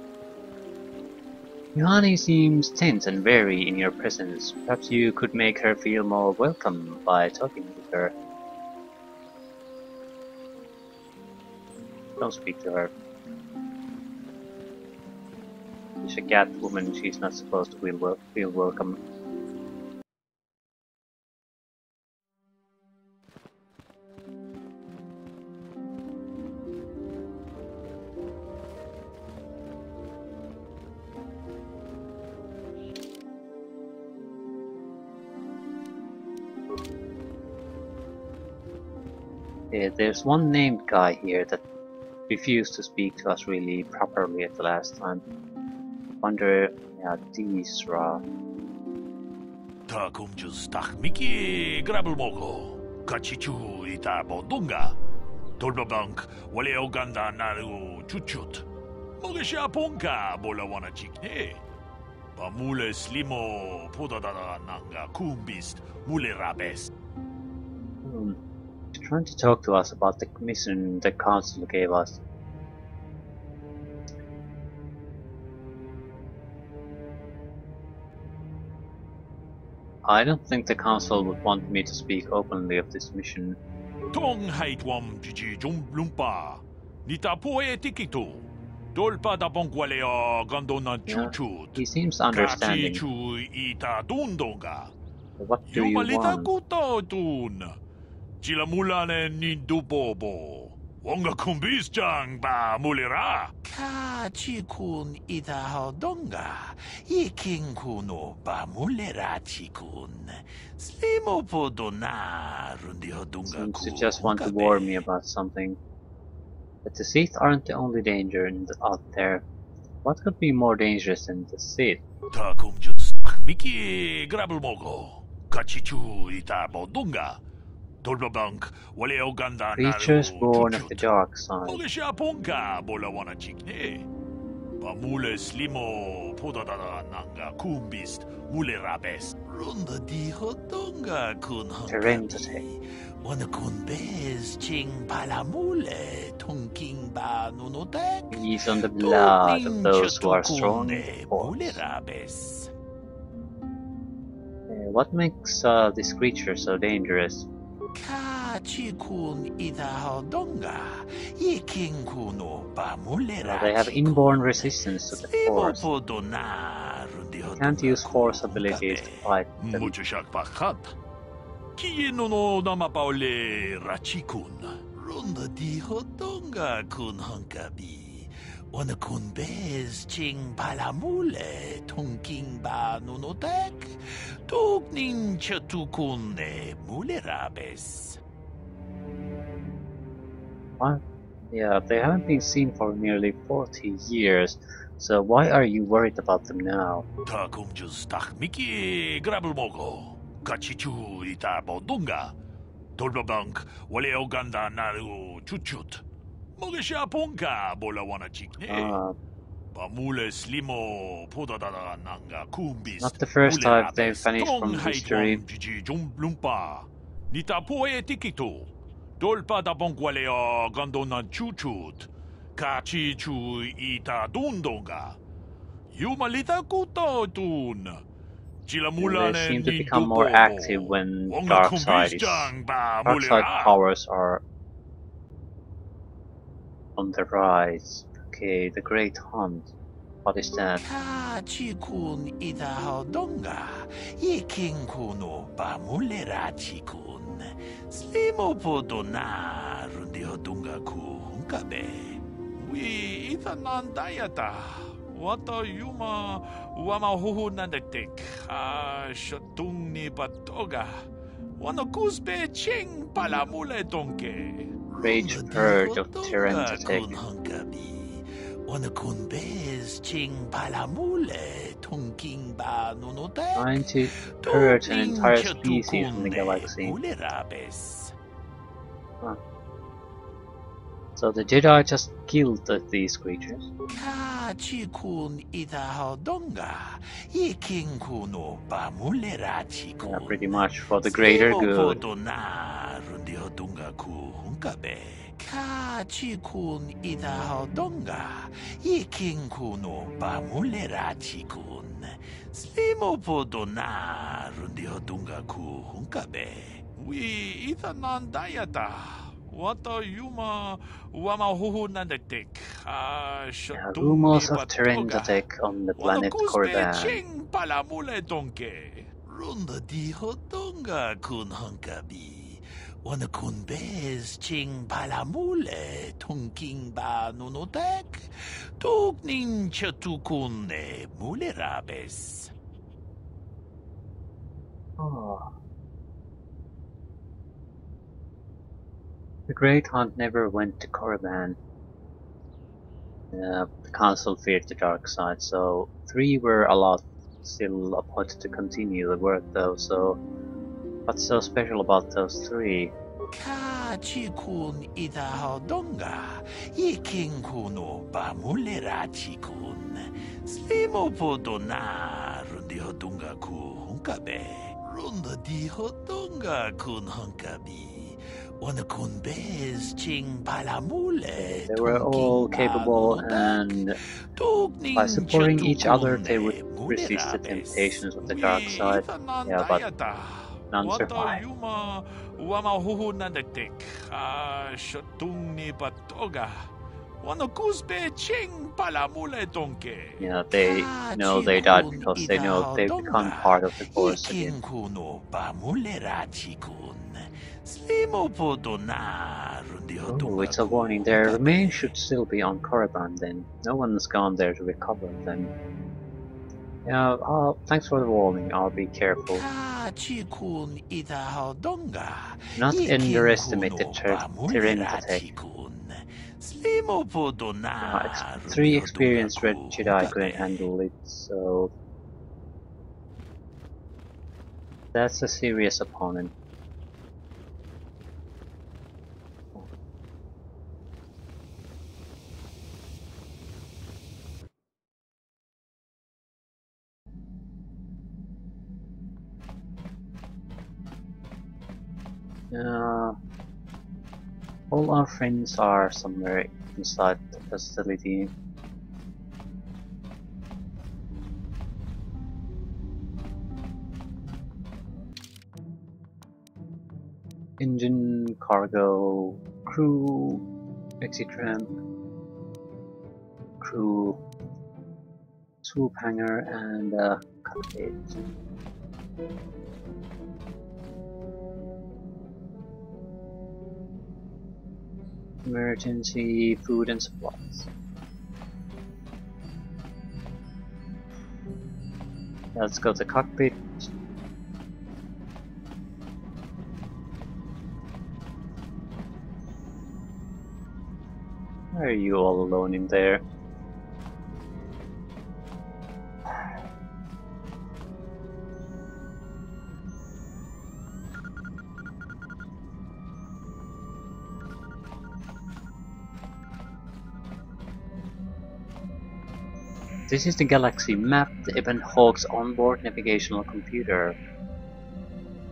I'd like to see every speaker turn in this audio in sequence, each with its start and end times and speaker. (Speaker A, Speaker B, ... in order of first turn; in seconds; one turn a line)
Speaker A: 1.8-8.1
Speaker A: 12.2-12.9
Speaker A: 16.0-19.0
Speaker A: 39.7-41.6
Speaker A: 42.3-45.2
Speaker A: 46.2-48.2
Speaker B: 49.9-55.0
Speaker B: 55.6-58.6
Speaker B: 59.2-61.6
Speaker B: 62.4-66.9
Speaker A: 68.0-68.4
Speaker A: 69.0-72.2
Speaker A: 80.0-83.6
Speaker B: 84.1-94.9
Speaker A: 91.1-93.0
Speaker A: 95.4-96.5
Speaker B: 95.7-97.8
Speaker B: 98.4-103.5
Speaker C: 103.6-115.0
Speaker A: 113.5-115.8
Speaker A: 116.8-119.5
Speaker A: 120.0-122.0
Speaker B: 122.3-127.4
Speaker B: 128.0-131.1
Speaker A: 129.8-131.8
Speaker B: 131.7-134.1
Speaker B: 134.8-139.4
Speaker C: 139.4-152.7
Speaker A: 141.9-142.6
Speaker A: 148.3-151.8
Speaker A: 154.7-157.5
Speaker C: 158.0-169.3
Speaker A: 163.4-165.8
Speaker A: 167.6-169.9
Speaker B: 169.6-170.9
Speaker B: 171.8-174.9
Speaker C: 174.9-188.2
Speaker A: 191.5-197.1
Speaker B: 197.3-202.3
Speaker B: 203.0-206.0
Speaker B: 206.6-209.0
Speaker A: 208.7-209.2
Speaker B: 209.7-225.2
Speaker A: 213.0-215.4
Speaker B: 225.9-228.0
Speaker B: 228.7-233.8
Speaker A: 229.0-232.5
Speaker A: 233.1-234.4
Speaker A: 237.0-239.7
Speaker A: 240.2-240.8
Speaker C: 240.8-252.2
Speaker B: 252.6-264.8
Speaker C: 264.9-278.1
Speaker A: 265.0-267.2
Speaker A: 273.6-277.0
Speaker A: 281.2-283.7
Speaker C: 283.9-306.8
Speaker A: 290.1-292.0
Speaker B: 307.0-315.4
Speaker A: 313.8-317.2
Speaker B: 316.0-319.1
Speaker C: 319.2-332.5
Speaker A: 335.0-335.5
Speaker A: 339.5-341.6
Speaker A: 343.3-350.2
Speaker A: 351.1-352.9
Speaker C: 353.3-373.8
Speaker A: 371.4-374.0
Speaker C: 374.3-378.1
Speaker A: 375.0-379.8
Speaker B: 378.2-386.7
Speaker A: 380.7-381.4
Speaker B: 387.2-390.2
Speaker A: 390.2-394.6
Speaker C: 390.5-401.9
Speaker A: 400.1-405.5
Speaker A: 406.9-409.4
Speaker C: 409.4-420.6
Speaker A: 412.6-415.3
Speaker A: 417.8-421.7
Speaker A: 424.9-426.3
Speaker A: 442.5-443.2
Speaker A: 444.7-448.3
Speaker A: 457.6-460.4
Speaker A: 461.0-461.7
Speaker A: 463.6-464.2
Speaker A: 465.6-468.1
Speaker A: 475.4-477.7
Speaker A: 482.6-483.9
Speaker A: 491.7-493.2
Speaker A: 510.1-514.2